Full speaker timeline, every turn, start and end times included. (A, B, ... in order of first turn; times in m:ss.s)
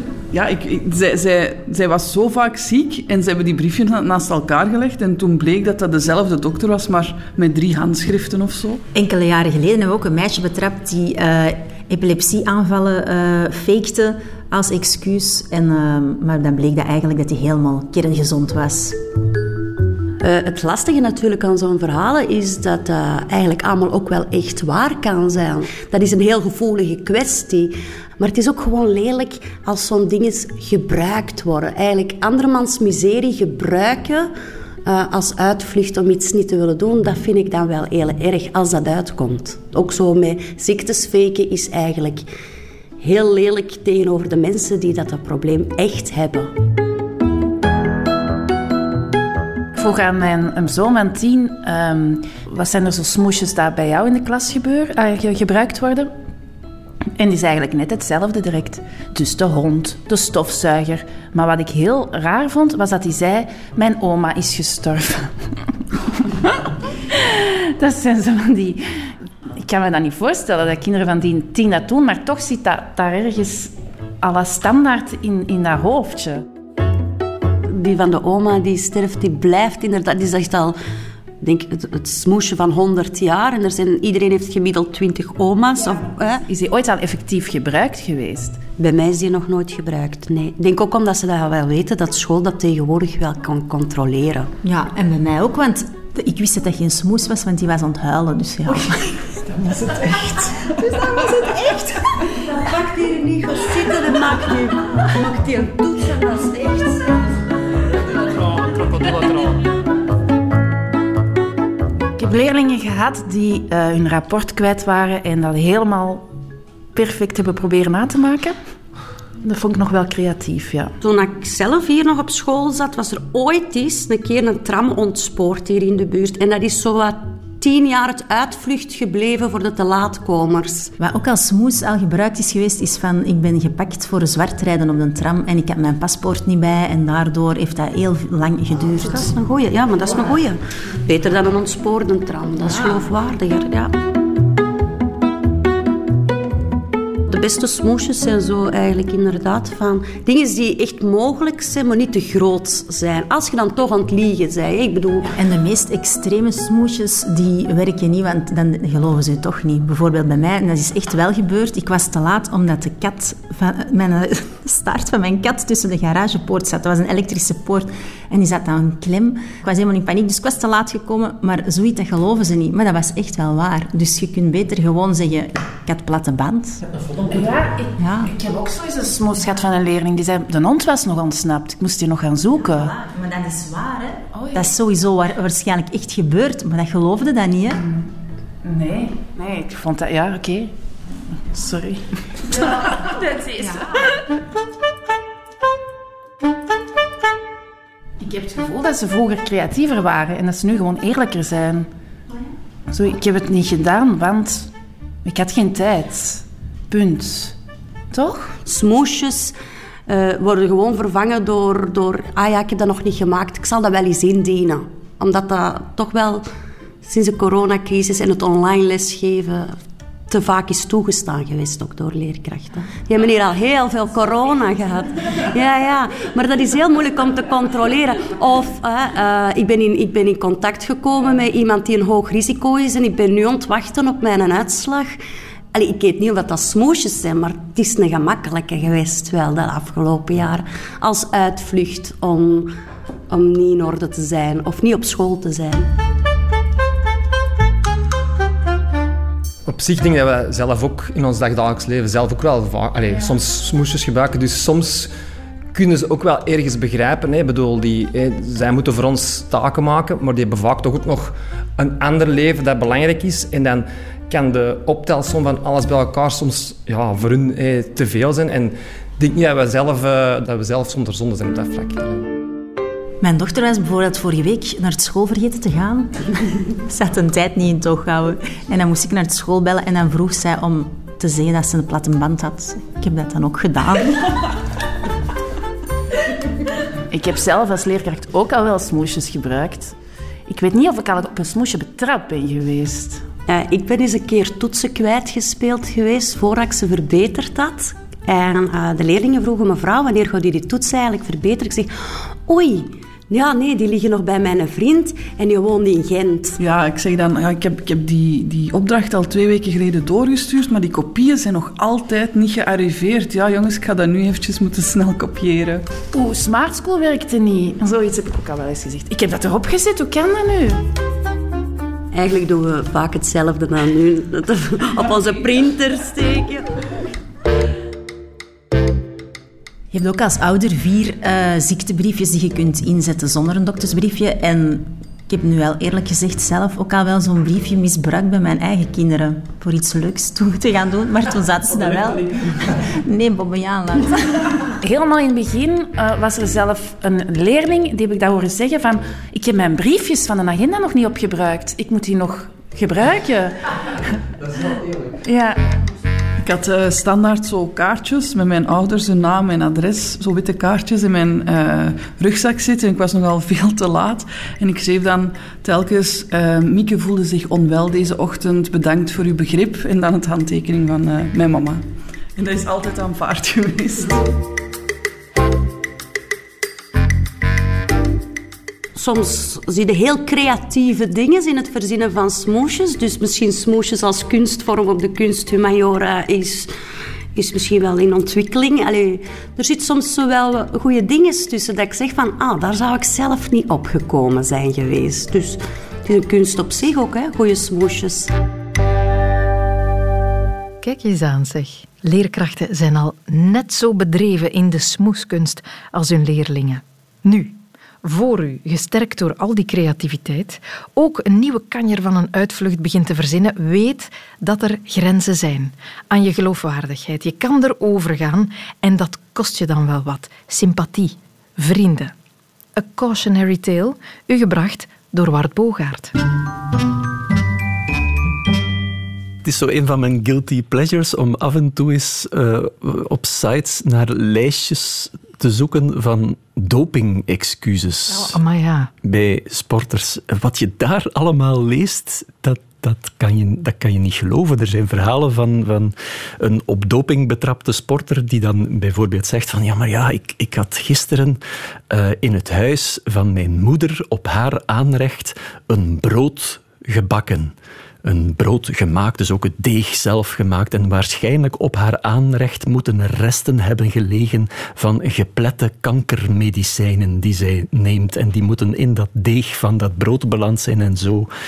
0:00.3-0:08.8 A
0:08.9-0:19.0 B
0:20.2-0:34.3 C
0:34.9-0:42.3 C
0:43.0-0:46.5 C
0:49.7-0:56.1 D
0:57.2-1:05.7 D
1:07.1-1:16.4 D
1:17.7-1:20.8 C
1:21.4-1:26.4 C
1:26.5-1:28.6 D
1:28.8-1:34.5 C
1:34.6-1:39.1 B
1:39.4-1:40.5 D
1:42.4-1:47.1 C
1:52.2-1:56.3 D
1:57.0-1:58.6 D
1:59.4-2:00.9 D
2:01.0-2:10.9 C
2:11.0-2:19.3 B
2:18.9-2:24.0 C
2:27.3-2:35.3 C
2:35.3-2:56.8 B
2:57.2-3:02.9 D
2:58.0-2:58.3 B
3:02.7-3:07.8 B
3:04.3-3:04.7 D
3:07.8-3:08.1 D
3:08.6-3:10.7 D
3:11.3-3:14.2 D
3:18.2-3:21.9 D
3:22.9-3:24.7 D
3:25.2-3:27.6 D
3:28.1-3:28.6 D
3:28.6-3:29.6 C
3:30.1-3:36.4 C
3:37.0-3:55.2 C
3:55.7-4:02.7 C
4:03.3-4:05.9 C
4:09.7-4:15.1 E
4:15.7-4:32.3 E
4:33.2-4:44.4 B
4:47.1-4:50.0 D
4:50.5-4:53.3 D
4:53.5-5:01.9 C
5:02.5-5:06.6 C
5:06.6-5:15.9 A
5:16.1-5:20.8 D
5:22.1-5:26.7 C
5:29.9-5:44.5 B
5:44.8-5:53.8 D
5:55.2-5:55.6 D
5:56.4-6:11.8 A
6:12.4-6:14.2 A
6:19.0-6:26.7 C
6:27.4-6:38.3 C
6:40.8-7:02.1 F
7:02.8-7:06.2 F
7:09.4-7:18.4 G
7:18.1-7:18.9 F
7:19.0-7:51.3 G